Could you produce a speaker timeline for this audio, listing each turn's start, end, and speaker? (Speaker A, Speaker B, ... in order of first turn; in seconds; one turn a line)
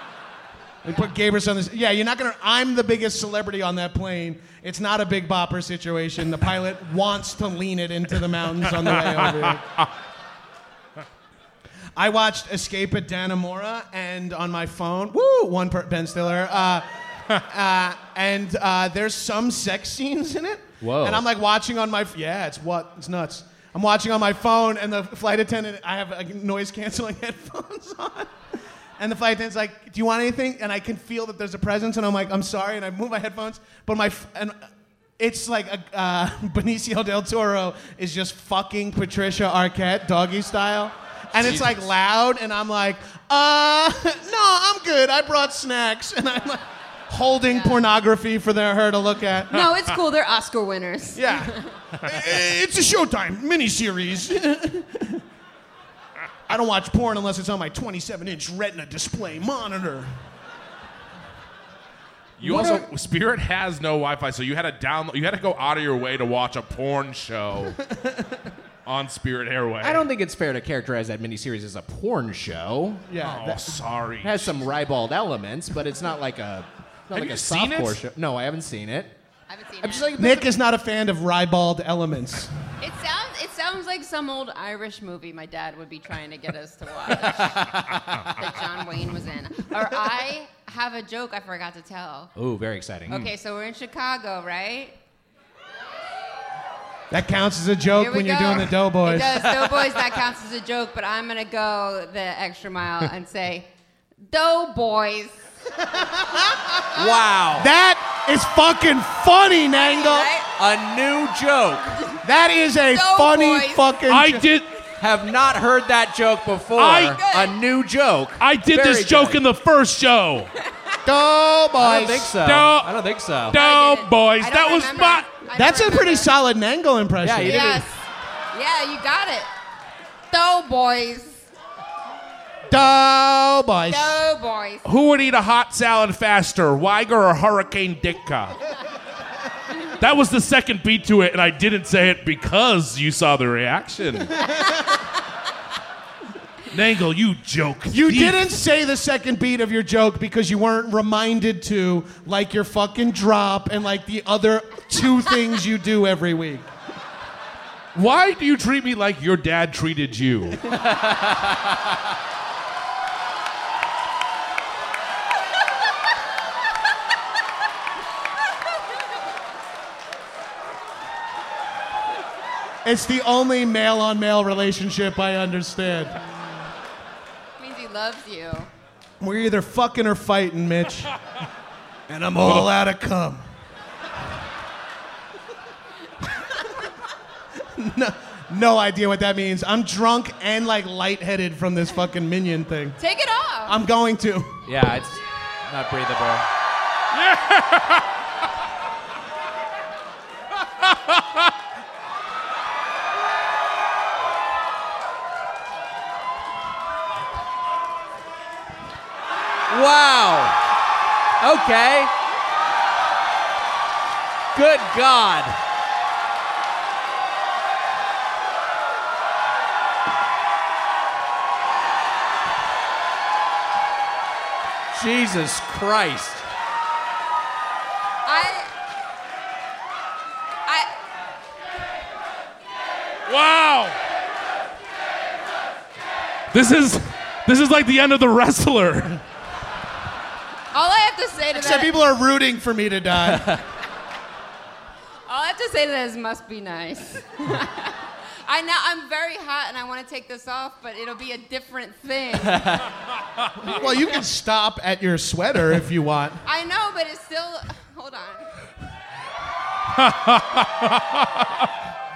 Speaker A: 0.8-9.6
Speaker B: 8.9-9.9
Speaker A: 11.9-28.3
Speaker C: 20.8-21.2
Speaker A: 29.0-34.7
Speaker A: 35.2-49.7
Speaker D: 47.5-47.8
Speaker D: 49.5-51.8
Speaker A: 51.1-55.2
Speaker A: 56.5-60.1
Speaker B: 62.4-67.8
Speaker A: 62.4-62.9
Speaker A: 67.7-68.5
Speaker B: 68.8-70.0
Speaker C: 69.8-73.0
Speaker A: 73.1-73.8
Speaker B: 73.2-74.6
Speaker C: 74.2-79.1
Speaker B: 77.1-78.0
Speaker D: 79.5-80.1
Speaker C: 79.8-80.5
Speaker A: 80.2-82.5
Speaker D: 82.8-92.3
Speaker C: 87.2-88.0
Speaker C: 92.3-93.2
Speaker D: 93.1-95.0
Speaker A: 97.1-99.5
Speaker D: 97.9-103.7
Speaker D: 104.3-105.4
Speaker A: 106.0-110.3
Speaker C: 106.9-107.7
Speaker D: 109.7-110.5
Speaker C: 110.6-112.0
Speaker A: 112.2-114.5
Speaker D: 112.9-113.9
Speaker B: 114.1-114.8
Speaker C: 115.0-119.4
Speaker B: 116.8-117.2
Speaker D: 117.1-117.6
Speaker B: 118.4-120.5
Speaker A: 121.0-122.4
Speaker C: 121.8-123.6
Speaker B: 122.4-122.9
Speaker B: 123.5-125.3
Speaker D: 123.5-126.3
Speaker A: 125.5-127.9
Speaker C: 127.2-127.8
Speaker D: 127.4-129.5
Speaker D: 130.3-131.5
Speaker A: 132.7-134.2
Speaker D: 133.9-134.8
Speaker B: 134.8-138.6
Speaker B: 140.0-144.4
Speaker A: 144.5-144.8
Speaker B: 146.7-148.6
Speaker A: 147.9-156.7
Speaker B: 157.9-160.7
Speaker C: 161.0-161.3
Speaker A: 172.8-176.2
Speaker D: 177.6-178.7
Speaker A: 179.2-181.1
Speaker A: 182.1-183.4
Speaker A: 187.6-193.0
Speaker D: 193.0-193.8
Speaker A: 193.7-194.6
Speaker C: 194.7-196.4
Speaker B: 197.1-198.1
Speaker B: 200.7-201.5
Speaker C: 209.7-210.6
Speaker C: 211.4-212.1
Speaker C: 214.5-215.6
Speaker C: 224.9-226.4
Speaker D: 228.2-228.7
Speaker B: 233.3-234.0
Speaker B: 236.5-239.2
Speaker D: 240.7-241.9
Speaker A: 241.5-243.5
Speaker C: 243.3-243.6
Speaker D: 245.3-252.8
Speaker C: 252.5-252.8
Speaker A: 253.6-256.4
Speaker D: 256.4-258.5
Speaker B: 259.9-261.7